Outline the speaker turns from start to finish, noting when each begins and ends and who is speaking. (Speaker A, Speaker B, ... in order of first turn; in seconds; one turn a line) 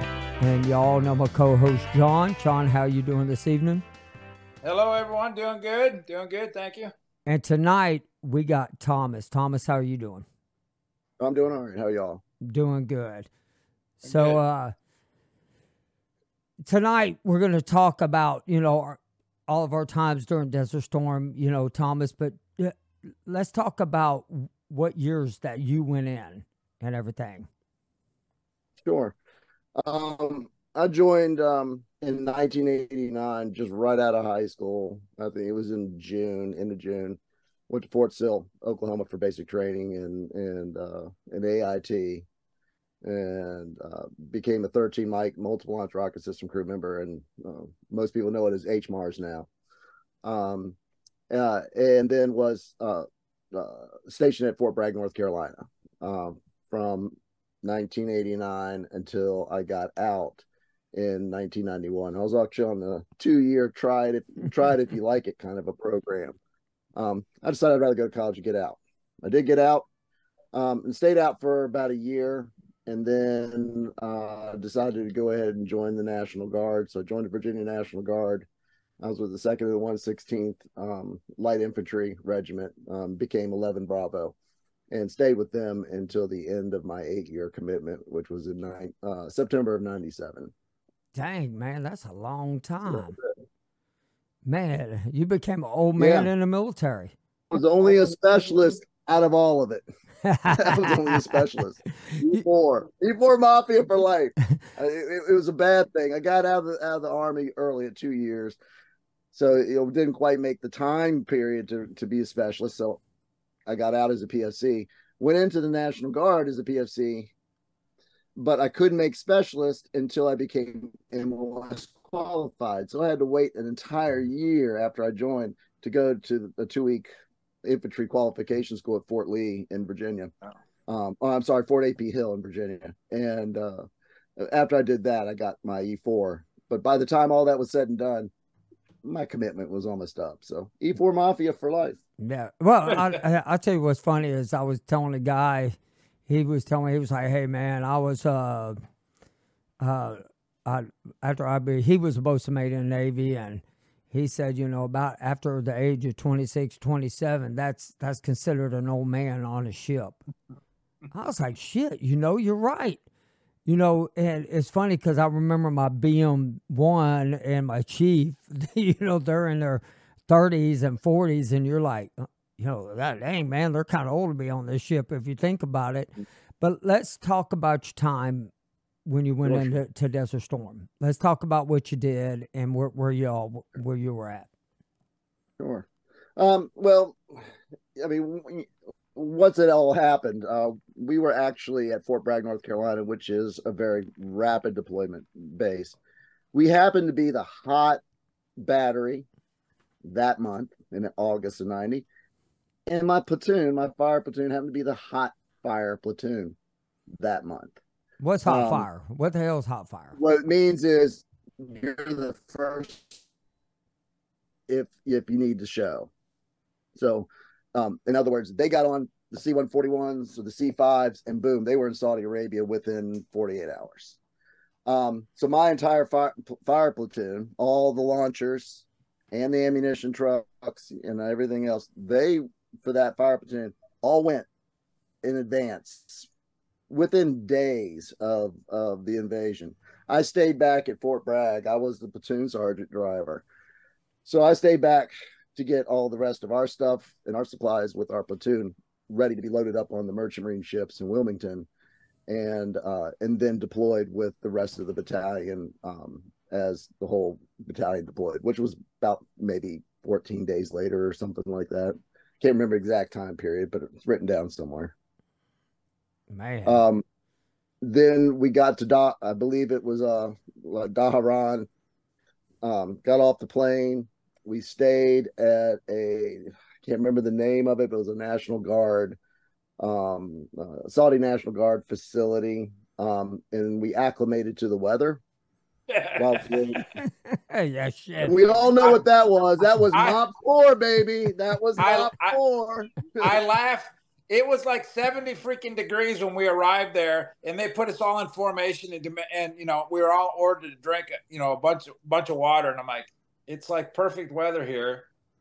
Speaker A: 0.4-3.8
Speaker B: 4.6-6.9
Speaker A: 7.3-10.3
Speaker C: 11.2-12.2
Speaker A: 12.4-13.3
Speaker A: 14.0-14.7
Speaker B: 14.1-14.4
Speaker A: 16.6-22.7
Speaker A: 23.2-27.5
Speaker C: 28.8-29.2
Speaker C: 29.8-42.3
Speaker C: 43.0-49.5
Speaker C: 50.2-50.8
Speaker C: 51.3-66.4
Speaker C: 67.0-69.9
Speaker C: 70.5-78.5
Speaker C: 79.0-84.3
Speaker C: 84.9-90.5
Speaker A: 91.1-93.2
Speaker C: 92.9-93.2
Speaker A: 94.5-97.1
Speaker C: 96.0-96.3
Speaker C: 97.5-99.8
Speaker A: 100.2-101.4
Speaker C: 100.5-108.6
Speaker A: 102.0-102.4
Speaker C: 109.3-113.0
Speaker C: 113.7-117.3
Speaker C: 118.4-127.1
Speaker C: 127.6-130.3
Speaker C: 130.9-133.8
Speaker C: 134.4-138.3
Speaker C: 139.0-142.0
Speaker A: 142.2-145.8
Speaker A: 146.3-148.8
Speaker A: 149.8-160.2
Speaker A: 161.1-163.0
Speaker A: 163.7-178.5
Speaker A: 179.1-184.5
Speaker C: 185.6-187.4
Speaker C: 188.0-196.0
Speaker C: 196.5-198.0
Speaker C: 198.6-199.3
Speaker C: 200.0-202.1
Speaker C: 202.9-206.6
Speaker C: 207.2-207.8
Speaker A: 208.2-210.2
Speaker C: 208.4-208.9
Speaker C: 210.2-213.2
Speaker C: 214.7-216.1
Speaker C: 216.9-224.2
Speaker C: 224.9-234.5
Speaker C: 235.2-236.3
Speaker C: 236.9-243.5
Speaker C: 244.2-251.7
Speaker C: 252.3-264.9
Speaker A: 266.3-266.9
Speaker C: 266.7-267.0
Speaker C: 267.8-271.7
Speaker C: 272.6-279.2
Speaker C: 279.8-285.2
Speaker B: 285.9-286.8
Speaker C: 286.2-286.8
Speaker A: 287.0-288.4
Speaker C: 288.2-293.4
Speaker B: 289.9-290.2
Speaker B: 291.8-292.4
Speaker B: 293.2-305.1